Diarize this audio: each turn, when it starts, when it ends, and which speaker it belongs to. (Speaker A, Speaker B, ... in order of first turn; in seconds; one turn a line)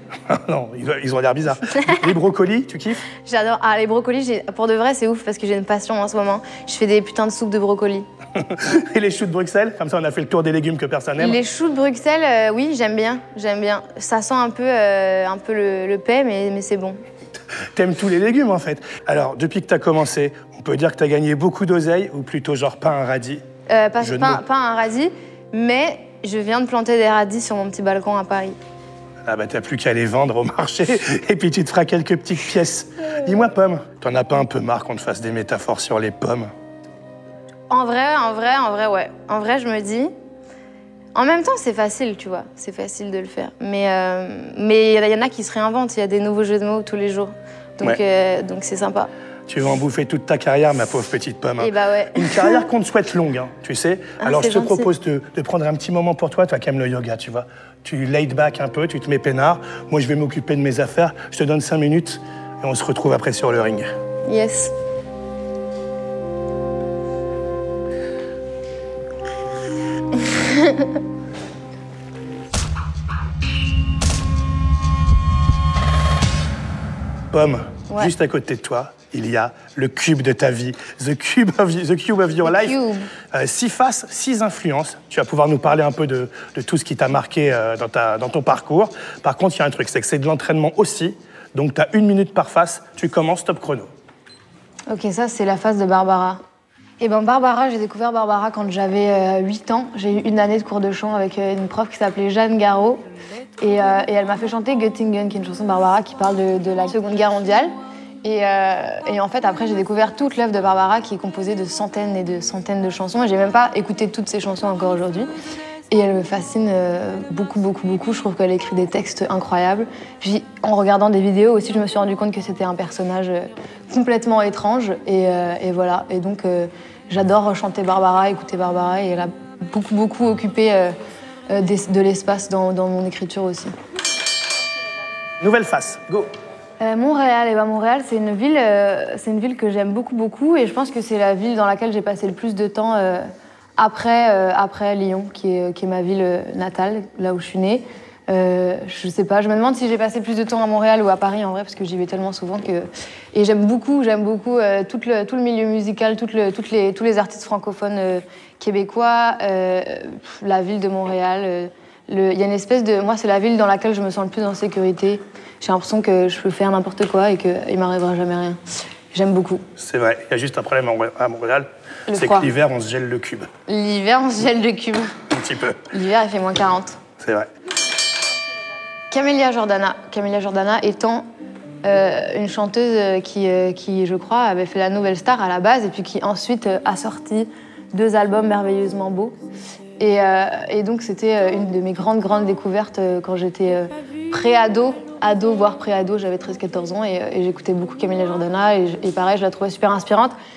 Speaker A: 0.3-3.1
Speaker B: 1.8-2.1
Speaker B: 3.2-8.1
Speaker A: 8.4-11.4
Speaker B: 11.2-17.0
Speaker A: 17.8-23.4
Speaker B: 23.7-28.6
Speaker A: 24.0-24.4
Speaker A: 29.3-36.5
Speaker B: 37.7-40.1
Speaker B: 41.1-49.1
Speaker A: 49.5-63.9
Speaker B: 51.6-52.6
Speaker B: 54.2-54.9
Speaker B: 64.3-64.7
Speaker B: 70.3-70.9
Speaker A: 77.3-82.8
Speaker B: 82.4-83.1
Speaker A: 83.3-93.9
Speaker B: 94.9-96.4
Speaker B: 97.0-103.1
Speaker B: 103.6-107.7
Speaker B: 108.2-115.3
Speaker B: 115.9-130.9
Speaker B: 131.5-133.7
Speaker A: 135.4-136.3
Speaker B: 136.8-143.3
Speaker B: 143.8-168.6
Speaker B: 169.1-169.6
Speaker A: 169.8-173.5
Speaker B: 172.1-172.5
Speaker B: 173.7-175.2
Speaker A: 175.3-175.9
Speaker B: 175.8-177.0
Speaker A: 177.2-177.5
Speaker B: 179.1-181.2
Speaker B: 181.8-189.4
Speaker B: 190.0-200.3